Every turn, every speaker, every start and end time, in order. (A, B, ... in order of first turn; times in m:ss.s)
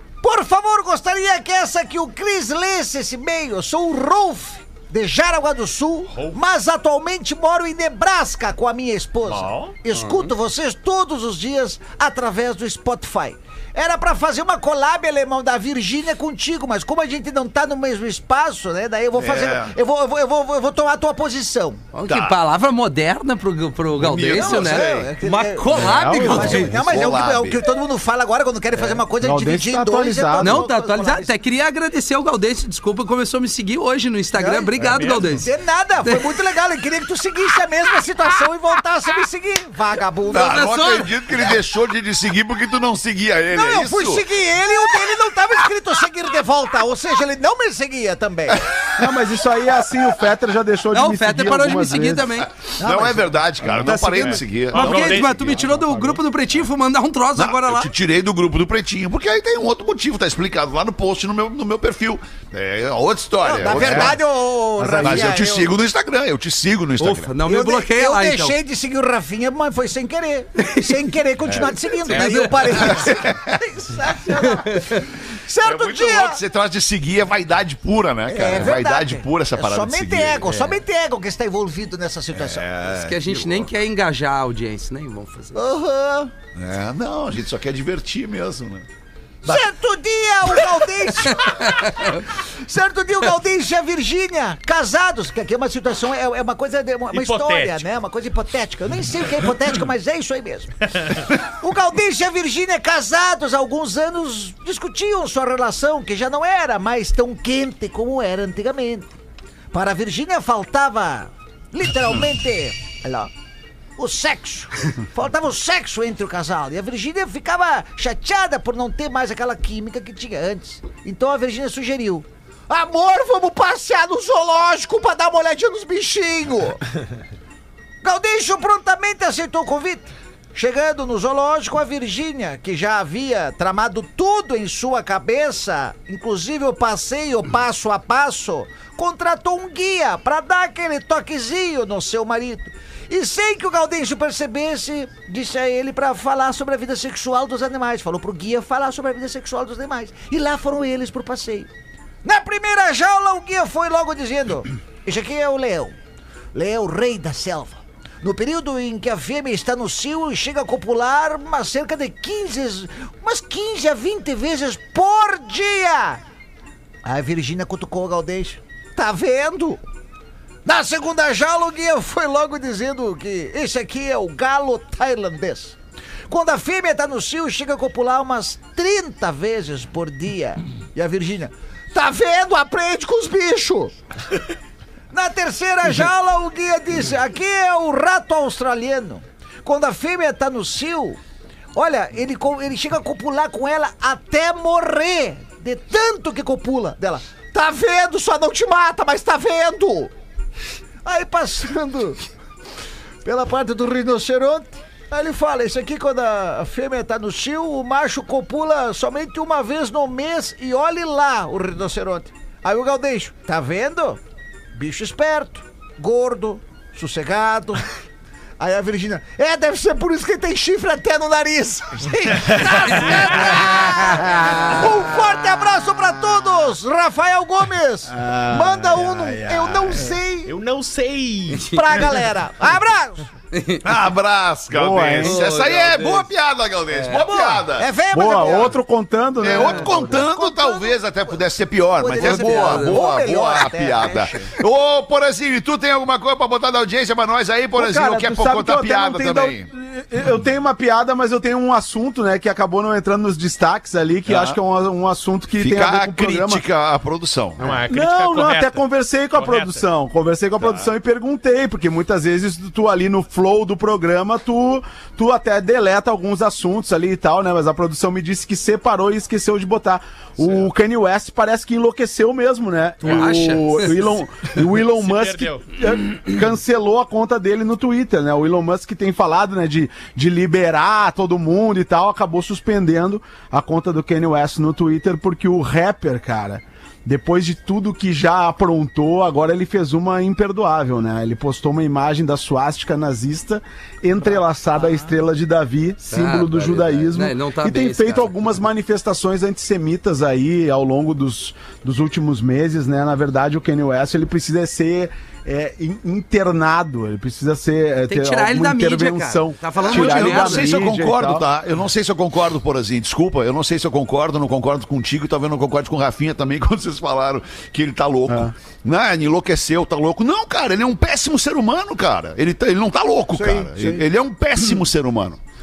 0:00.2-0:21.8 A
0:06.1-0:06.4 B
0:09.2-0:09.8 B
0:09.9-0:10.3 C
0:19.1-0:19.7 D
0:21.9-0:26.8 C
0:22.1-0:22.4 D
0:24.0-0:25.1 D
0:24.3-0:31.3 A
0:25.7-0:26.8 E
0:26.5-0:27.6 D
0:29.2-0:30.6 E
0:30.4-0:35.5 C
0:34.3-0:40.7 A
0:34.8-0:35.3 B
0:36.0-0:36.3 C
0:40.3-0:44.3 D
0:40.4-0:41.1 C
0:43.5-0:48.6 A
0:48.7-0:49.1 D
0:49.0-0:52.4 E
0:50.9-0:52.5 C
0:52.7-0:55.1 D
0:52.8-0:53.4 A
0:53.6-0:54.4 E
0:54.1-0:55.8 B
0:54.7-0:57.9 C
0:55.5-0:56.2 E
0:57.4-1:04.2 D
1:03.4-1:05.7 A
1:03.6-1:04.2 E
1:04.8-1:05.4 E
1:05.0-1:07.3 D
1:07.0-1:08.6 C
1:07.4-1:16.4 A
1:10.6-1:11.0 C
1:11.7-1:13.1 C
1:12.8-1:13.6 D
1:14.4-1:15.0 C
1:15.6-1:20.7 D
1:18.3-1:22.6 A
1:22.3-1:23.7 D
1:22.9-1:25.6 C
1:25.5-1:26.3 A
1:26.5-1:28.8 D
1:29.4-1:49.1 A
1:31.6-1:32.2 C
1:37.1-1:37.9 B
1:49.7-1:53.3 A
1:54.0-2:06.8 A
2:08.0-2:31.7 A
2:32.2-2:35.9 A
2:36.5-2:46.2 A
2:47.0-2:49.8 A
2:50.6-2:55.8 A
2:56.3-3:03.9 A
3:05.1-3:11.2 A
3:11.7-3:20.1 A
3:21.0-3:22.2 A
3:23.2-3:34.2 A
3:34.7-3:37.9 A
3:38.6-3:50.5 A
3:44.2-3:44.8 C
3:48.1-3:50.1 E
3:50.4-3:51.7 B
3:51.6-3:52.0 C
3:51.7-3:53.3 A
3:53.5-3:53.8 C
3:53.8-3:57.9 D
3:54.7-3:55.4 E
3:55.2-3:56.3 C
3:56.9-3:57.3 C
3:57.3-3:58.8 A
3:58.1-4:00.2 E
3:59.4-4:09.6 D
3:59.9-4:01.4 A
4:02.0-4:04.5 A
4:02.1-4:03.1 C
4:07.7-4:16.6 E
4:14.3-4:14.6 D
4:15.6-4:17.8 D
4:17.6-4:19.8 B
4:17.9-5:11.4 E
4:20.6-4:20.9 D
4:33.0-4:34.1 C
4:34.6-4:35.7 B
4:54.7-4:55.1 C
4:56.1-4:58.6 C
5:08.1-5:10.8 C
5:09.8-5:25.4 D
5:18.3-5:18.5 E
5:23.3-5:24.0 A
5:23.4-5:24.0 E